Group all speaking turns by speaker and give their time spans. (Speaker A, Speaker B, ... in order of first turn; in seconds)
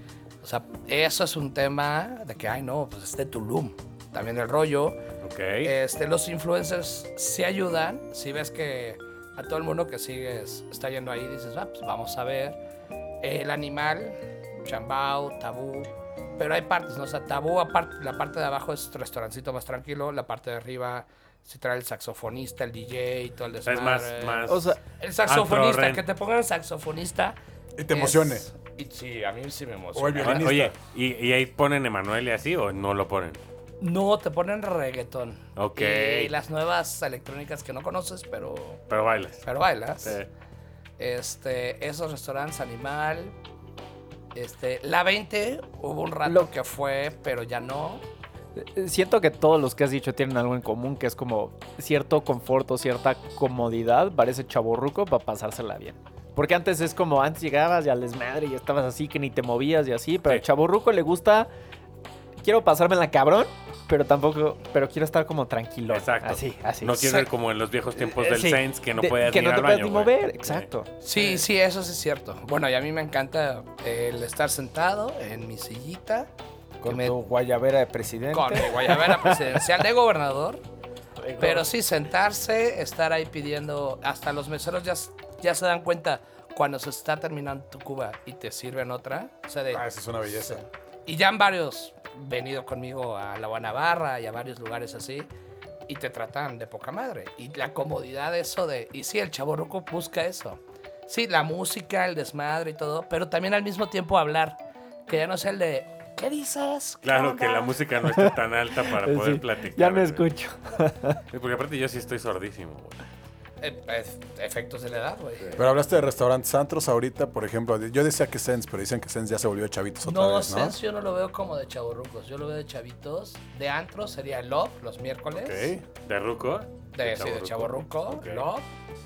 Speaker A: 0.4-5.0, 5.6-12.6, 13.2-27.4, 27.9-30.6, 33.8-38.8, 39.5-40.2, 41.0-43.4, 44.3-48.0, 67.0-67.3, 71.0-76.3, 76.9-77.2, 78.3-80.6, 81.4-95.3, 95.9-107.8, 113.6-115.6, 120.0-125.7, 126.9-128.7
Speaker B: 5.2-5.7, 23.6-26.0, 30.2-33.4, 35.6-36.3, 38.9-39.4, 40.0-40.3, 65.9-70.7, 107.0-110.3, 111.3-113.0, 126.0-128.5
Speaker C: 24.5-24.8, 46.3-46.5, 48.6-61.5, 62.4-67.0, 68.0-70.9, 108.0-111.2
Speaker D: 27.8-28.5, 29.9-30.7, 89.7-90.6, 115.6-120.8, 125.3-125.8
Speaker E: 76.8-78.9